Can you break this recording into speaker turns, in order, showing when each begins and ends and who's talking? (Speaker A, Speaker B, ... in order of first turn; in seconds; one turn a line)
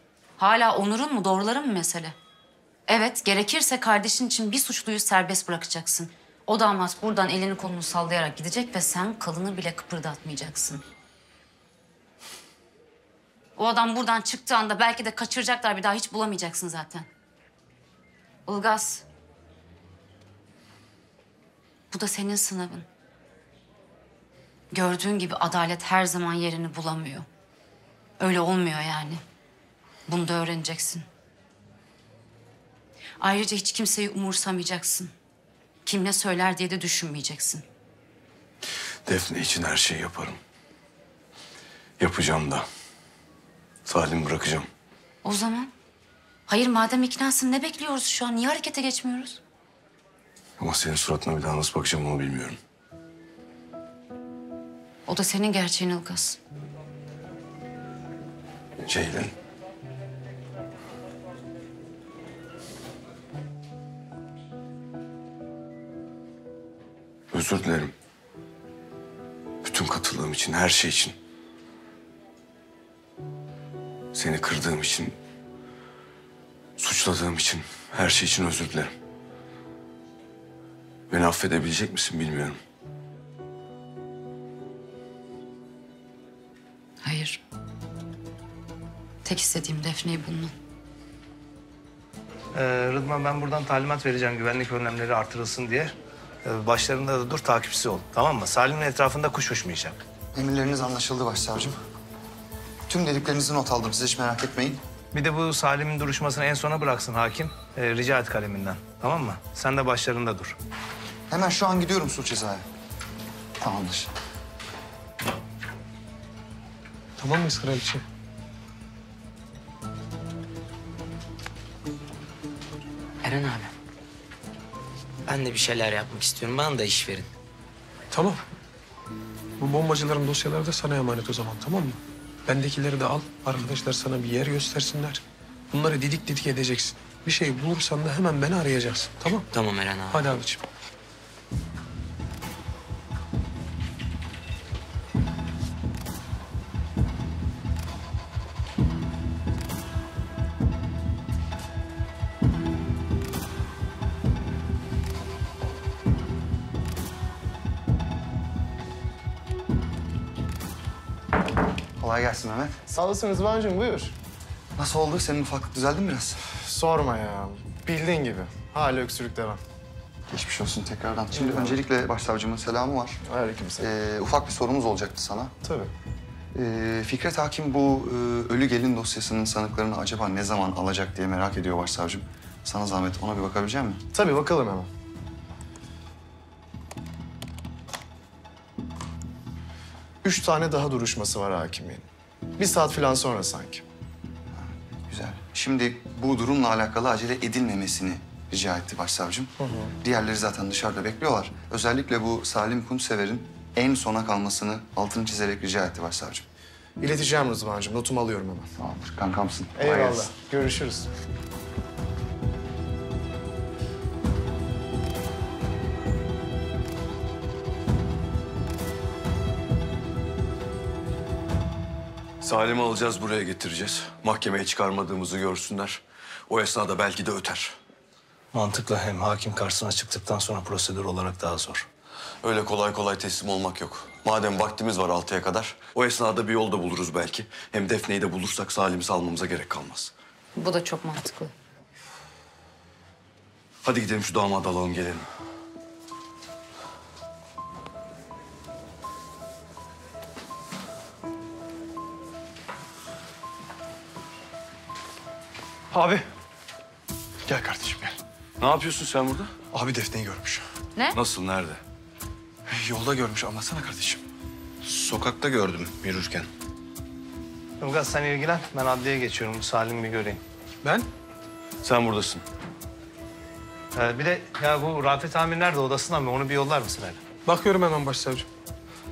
Speaker A: 0.4-2.1
Speaker A: 2.9-10.8
Speaker A: 13.6-17.1
Speaker A: 18.5-19.1
Speaker A: 21.9-22.9
Speaker A: 24.7-27.3
Speaker A: 28.2-29.2
Speaker A: 30.1-31.1
Speaker A: 33.2-35.1
Speaker A: 35.9-37.6
Speaker B: 39.1-40.4
Speaker B: 42.0-42.7
Speaker B: 43.9-44.7
Speaker A: 45.2-45.7
Speaker A: 46.5-49.4
Speaker B: 50.6-52.6
Speaker A: 55.1-56.4
Speaker B: 58.9-59.3
Speaker B: 67.3-67.9
Speaker B: 69.6-71.2
Speaker B: 74.1-75.2
Speaker B: 76.8-78.9
Speaker B: 81.1-82.6
Speaker A: 87.0-87.4
Speaker A: 89.2-90.5
Speaker C: 92.5-95.9
Speaker C: 96.5-100.0
Speaker D: 100.3-101.8
Speaker D: 102.9-104.8
Speaker C: 105.1-110.6
Speaker D: 111.3-112.7
Speaker D: 113.6-114.1
Speaker E: 117.2-118.0
Speaker F: 123.2-123.7
Speaker F: 125.3-127.3
Speaker E: 128.1-128.4
Speaker E: 129.6-139.5
Speaker F: 139.5-140.4
Speaker E: 140.1-140.6
Speaker D: 162.0-162.8
Speaker G: 162.9-164.2
Speaker D: 164.8-166.5
Speaker G: 166.6-169.6
Speaker D: 170.3-173.2
Speaker G: 171.3-171.8
Speaker G: 173.3-173.9
Speaker D: 173.8-175.6
Speaker G: 175.6-175.9
Speaker D: 176.5-184.0
Speaker G: 184.1-184.9
Speaker G: 190.2-192.1
Speaker G: 192.6-193.8
Speaker D: 194.5-206.4
Speaker G: 199.6-199.9
Speaker G: 207.0-208.7
Speaker D: 208.8-210.3
Speaker G: 209.8-211.1
Speaker B: 222.4-227.8
Speaker C: 228.5-231.9
Speaker B: 232.4-240.1
Speaker A: 240.6-241.5
Speaker B: 243.8-245.2
Speaker G: 255.9-256.2
Speaker G: 257.5-258.2
Speaker B: 258.6-259.5
Speaker G: 259.7-260.6
Speaker B: 261.1-261.8
Speaker G: 262.7-264.2
Speaker B: 264.8-266.5
Speaker C: 267.8-270.4
Speaker E: 270.8-271.1
Speaker B: 271.8-272.4
Speaker C: 273.9-277.2
Speaker E: 277.4-278.5